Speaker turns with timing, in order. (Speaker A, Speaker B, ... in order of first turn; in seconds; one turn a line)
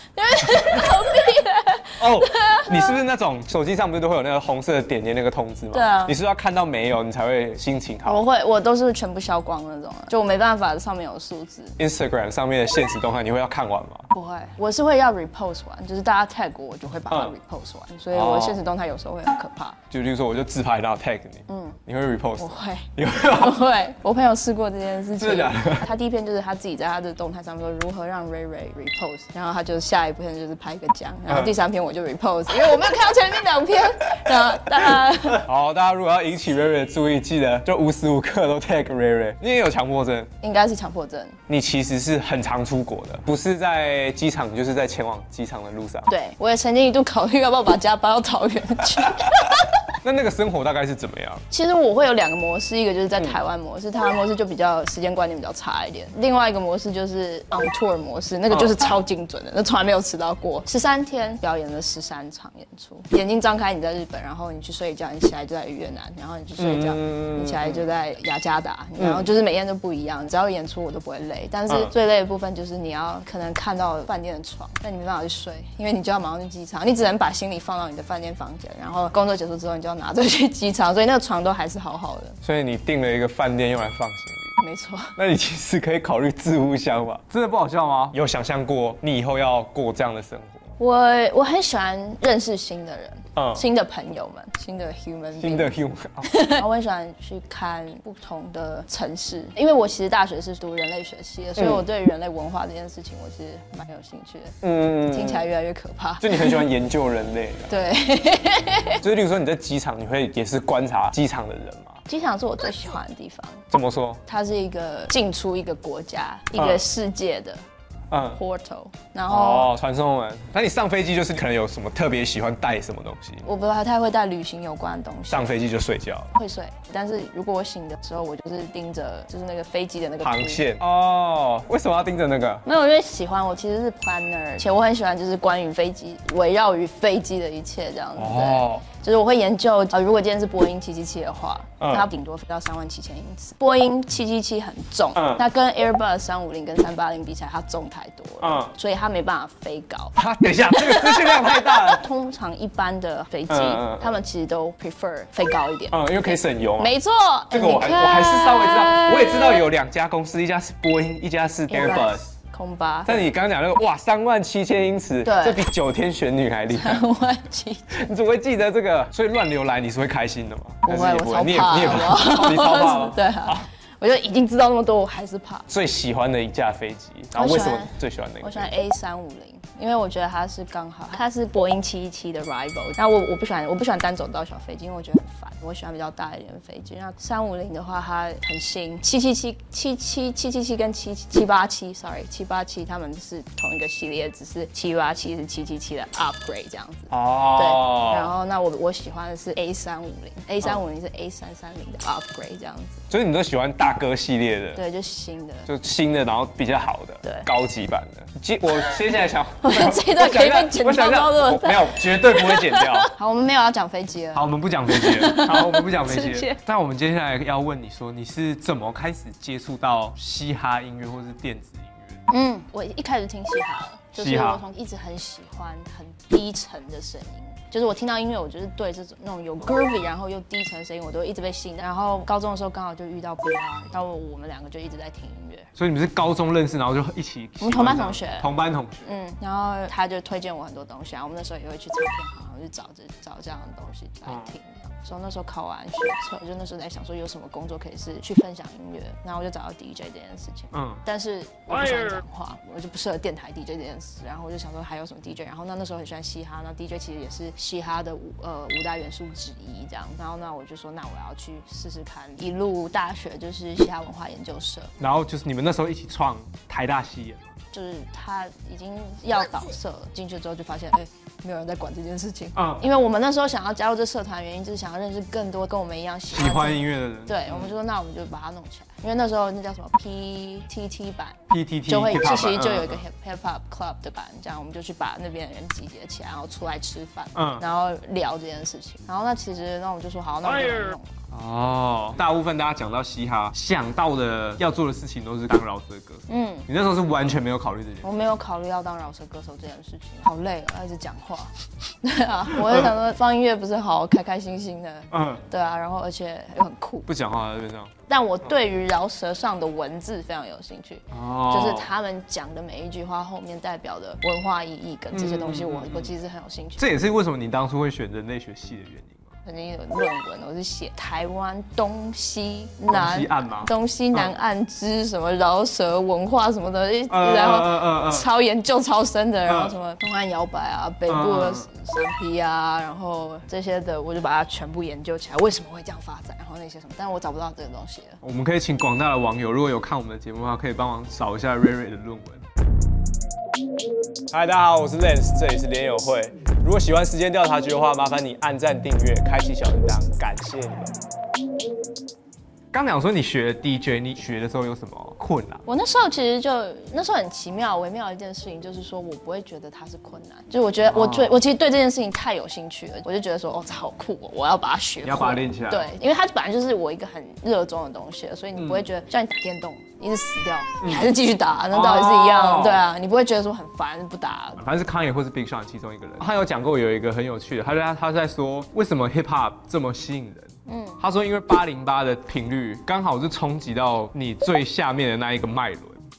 Speaker A: 0.1-3.0
Speaker B: 2.0-8.2
Speaker A: 5.7-6.1
Speaker A: 8.0-11.8
Speaker B: 11.8-14.1
Speaker A: 14.1-19.8
Speaker B: 17.1-17.3
Speaker B: 18.1-18.6
Speaker B: 19.9-23.6
Speaker A: 21.5-21.8
Speaker A: 22.4-35.5
Speaker B: 25.2-25.9
Speaker B: 31.3-31.5
Speaker B: 35.4-40.3
Speaker A: 40.4-41.4
Speaker B: 41.5-46.1
Speaker A: 46.1-49.8
Speaker B: 50.0-51.4
Speaker A: 51.5-82.4
Speaker B: 58.5-58.9
Speaker B: 66.6-67.8
Speaker B: 82.4-84.6
Speaker A: 84.6-85.2
Speaker B: 85.2-90.6
Speaker A: 90.8-106.7
Speaker B: 93.3-93.6
Speaker B: 95.4-96.3
Speaker B: 101.6-101.8
Speaker B: 104.6-105.5
Speaker B: 106.2-107.7
Speaker A: 107.7-109.0
Speaker B: 109.0-112.0
Speaker A: 112.1-113.6
Speaker B: 113.7-114.2
Speaker A: 114.2-117.6
Speaker B: 116.5-116.8
Speaker B: 118.1-118.4
Speaker A: 118.3-119.7
Speaker B: 119.3-123.5
Speaker A: 123.4-125.5
Speaker B: 125.3-126.3
Speaker A: 126.3-130.6
Speaker B: 130.2-132.6
Speaker A: 132.6-150.2
Speaker B: 138.2-138.8
Speaker B: 141.8-142.1
Speaker B: 145.1-145.4
Speaker B: 148.4-148.7
Speaker B: 150.2-152.0
Speaker A: 150.7-159.7
Speaker B: 153.5-154.2
Speaker B: 155.9-156.9
Speaker B: 157.5-162.3
Speaker A: 161.7-163.3
Speaker B: 163.1-167.0
Speaker A: 165.2-165.6
Speaker A: 166.7-168.0
Speaker B: 167.9-173.7
Speaker A: 170.8-175.7
Speaker B: 175.7-178.7
Speaker A: 177.3-203.0
Speaker B: 197.1-198.3
Speaker B: 203.1-204.8
Speaker A: 204.7-205.7
Speaker B: 205.7-213.1
Speaker A: 209.6-216.6
Speaker B: 214.3-222.2
Speaker A: 222.3-235.7
Speaker B: 224.2-224.6
Speaker B: 235.7-239.2
Speaker A: 237.6-238.5
Speaker A: 239.0-264.9
Speaker B: 244.2-244.5
Speaker B: 250.7-251.0
Speaker B: 265.0-267.5
Speaker A: 267.7-291.1
Speaker B: 272.5-272.8
Speaker B: 276.3-277.7
Speaker B: 281.5-283.0
Speaker B: 287.3-287.6
Speaker B: 291.3-298.1
Speaker A: 296.3-296.7
Speaker A: 298.0-307.1
Speaker B: 305.1-305.4
Speaker B: 307.1-307.9
Speaker A: 308.1-316.9
Speaker B: 311.1-311.9
Speaker B: 315.1-316.1
Speaker B: 316.8-319.3
Speaker A: 319.4-338.2
Speaker B: 322.9-324.3
Speaker B: 327.1-328.2
Speaker B: 329.5-329.7
Speaker B: 331.1-331.7
Speaker B: 338.2-342.4
Speaker B: 344.3-350.9
Speaker B: 352.7-355.6
Speaker A: 355.6-374.6
Speaker B: 360.9-361.4
Speaker B: 365.0-365.9
Speaker B: 368.5-368.9
Speaker B: 370.8-371.1
Speaker B: 371.7-372.8
Speaker B: 374.6-386.1
Speaker A: 380.6-381.0